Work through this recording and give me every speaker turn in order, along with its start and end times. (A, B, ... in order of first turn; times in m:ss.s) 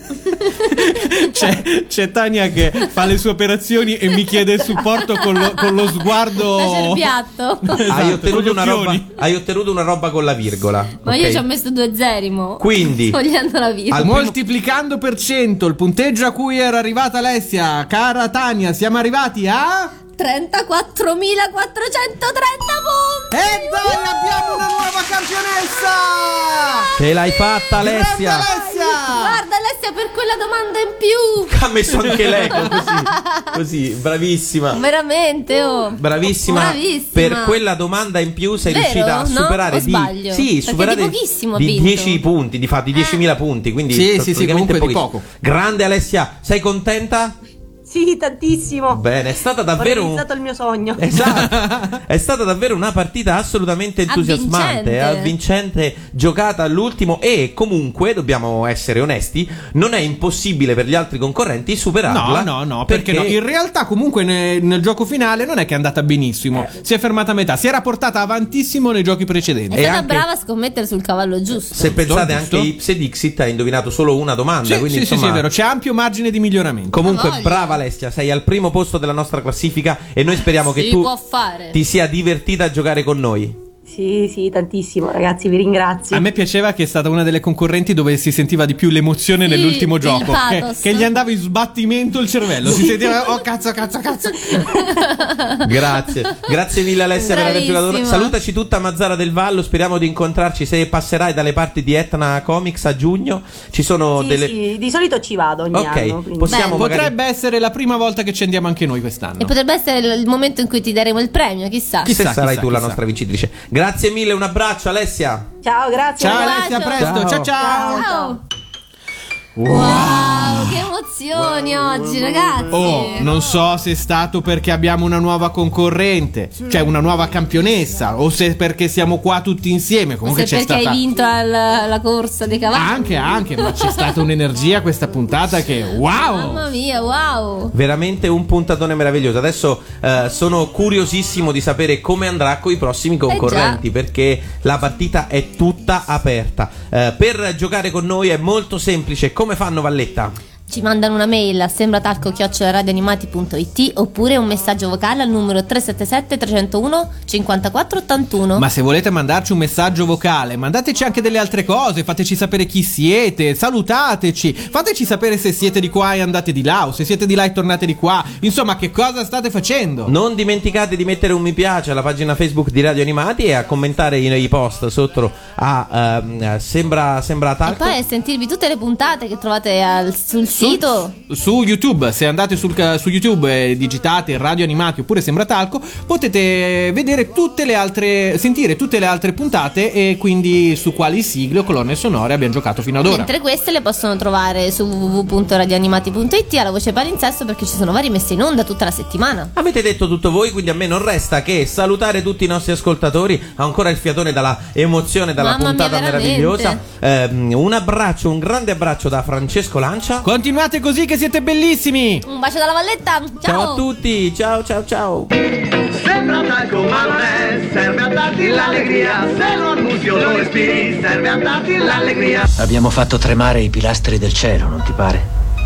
0:00.3-0:07.1 A
0:05.4-0:08.0 B
0:07.6-0:09.2 A
0:07.9-0:11.4 C
0:11.0-0:14.1 B
0:12.6-0:13.2 C
0:13.9-0:14.4 C
0:14.0-0:19.9 A
0:20.2-0:24.6 B
0:23.3-0:26.9 A
0:27.0-0:28.5 C
0:27.8-0:29.4 A
0:28.6-0:31.5 B
0:31.5-0:34.8 C
0:32.7-0:33.5 B
0:34.7-0:37.6 B
0:35.9-0:47.4 C
0:38.7-0:42.2 B
0:43.0-0:43.2 B
0:43.9-0:45.2 A
0:47.9-0:49.0 D
0:48.9-0:50.2 C
0:49.8-0:51.0 D
0:51.0-1:03.4 C
0:51.1-0:52.0 A
0:54.1-0:55.3 B
1:02.1-1:09.8 A
1:09.7-1:11.9 B
1:09.7-1:10.3 C
1:11.7-1:15.5 C
1:11.8-1:12.7 A
1:14.6-1:17.0 A
1:16.9-1:21.1 C
1:17.0-1:17.8 B
1:20.6-1:21.8 B
1:21.7-1:23.6 C
1:23.9-1:26.3 D
1:26.1-1:34.7 A
1:29.4-1:31.1 B
1:34.6-1:35.0 D
1:35.0-1:35.6 B
1:35.6-1:44.6 C
1:37.2-1:38.3 B
1:44.2-1:46.8 D
1:45.7-1:47.1 C
1:46.5-1:46.8 B
1:46.7-1:49.5 A
1:49.4-1:52.1 B
1:52.0-1:53.0 A
1:52.0-1:55.5 C
1:55.6-1:57.0 D
1:56.2-1:58.1 A
1:56.3-1:58.4 B
1:57.0-1:57.5 C
1:57.6-1:58.4 D
1:59.6-2:00.8 A
1:59.7-2:03.3 B
2:02.7-2:11.0 A
2:10.3-2:14.0 B
2:12.7-2:16.6 A
2:16.2-2:17.7 B
2:17.7-2:30.4 C
2:23.3-2:23.8 B
2:30.7-2:38.6 B
2:38.6-2:50.1 A
2:50.1-2:58.0 C
2:57.7-3:01.2 B
3:00.6-3:13.3 A
3:13.0-3:19.5 B
3:19.6-3:30.3 C
3:25.4-3:26.8 B
3:30.2-3:32.3 A
3:32.3-3:33.8 B
3:33.4-3:35.3 C
3:35.9-3:42.5 E
3:42.6-3:45.2 F